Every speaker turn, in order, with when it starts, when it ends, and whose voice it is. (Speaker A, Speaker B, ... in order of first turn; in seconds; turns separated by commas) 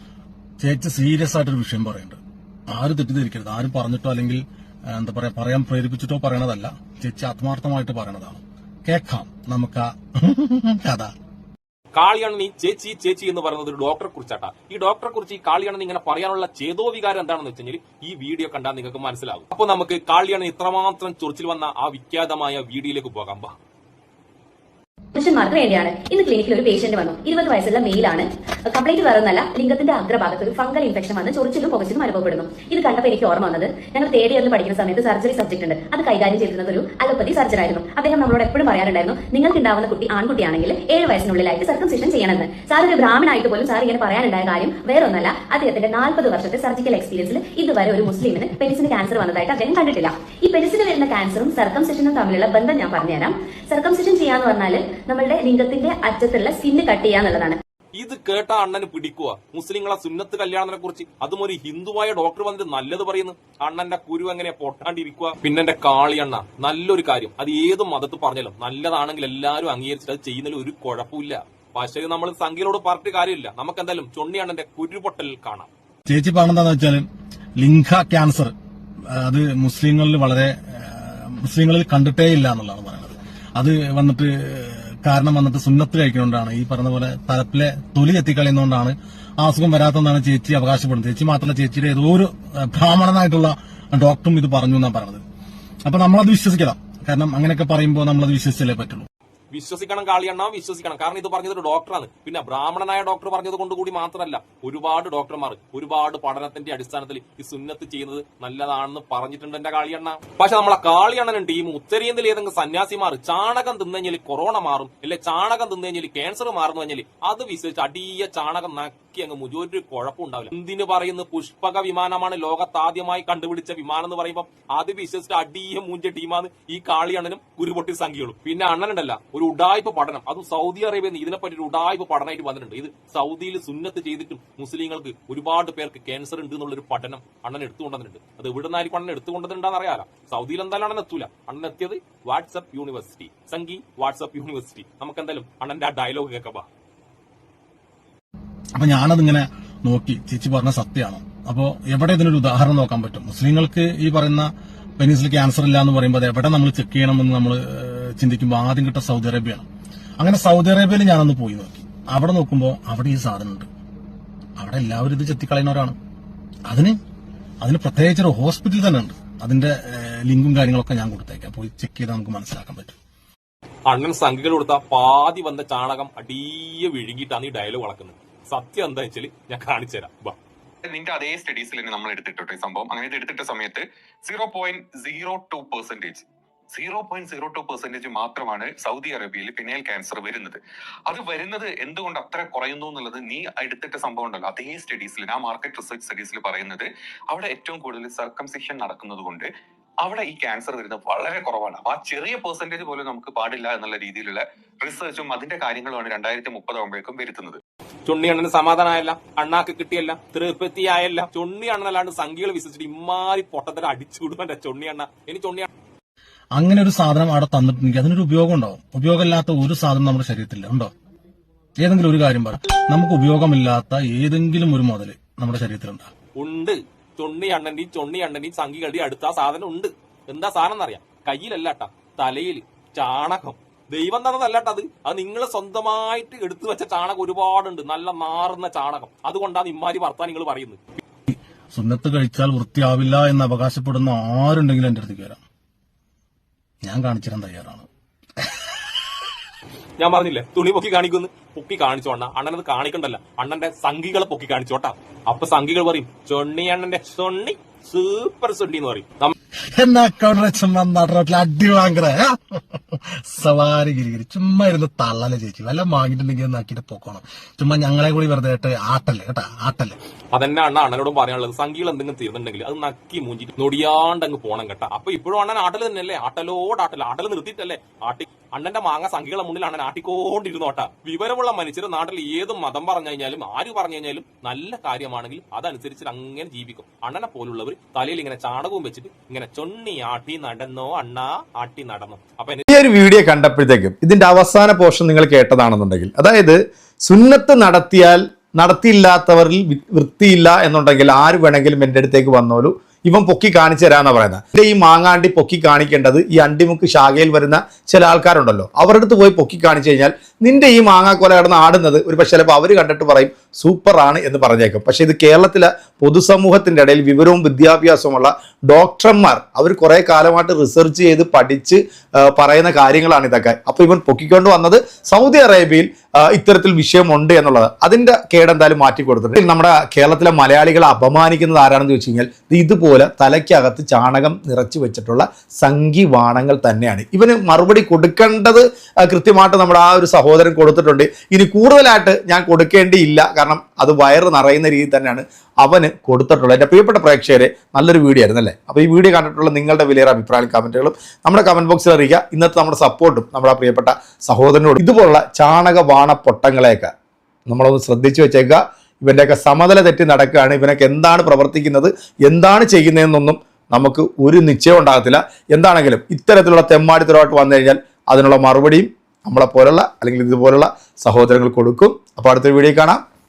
Speaker A: 0.6-11.1, Speaker B: 11.9-23.5, Speaker C: 25.1-57.6, Speaker B: 58.0-75.7, Speaker A: 76.1-77.0, Speaker A: 77.6-78.5, Speaker A: 79.1-95.2, Speaker A: 95.8-99.1, Speaker B: 99.5-146.7, Speaker A: 148.8-154.5, Speaker A: 155.0-159.7, Speaker A: 160.2-163.7, Speaker A: 164.6-166.0, Speaker A: 166.7-167.0, Speaker A: 167.6-172.9, Speaker B: 173.9-180.4, Speaker D: 180.9-199.5, Speaker D: 200.0-207.6, Speaker B: 208.1-215.7, Speaker A: 216.5-220.9, Speaker A: 221.8-226.1, Speaker B: 226.4-240.8, Speaker A: 241.3-245.4, Speaker A: 246.8-247.9, Speaker A: 248.4-248.9, Speaker B: 250.0-259.4, Speaker A: 259.7-270.0, Speaker B: 270.3-292.6, Speaker E: 292.7-356.9, Speaker E: 357.5-373.0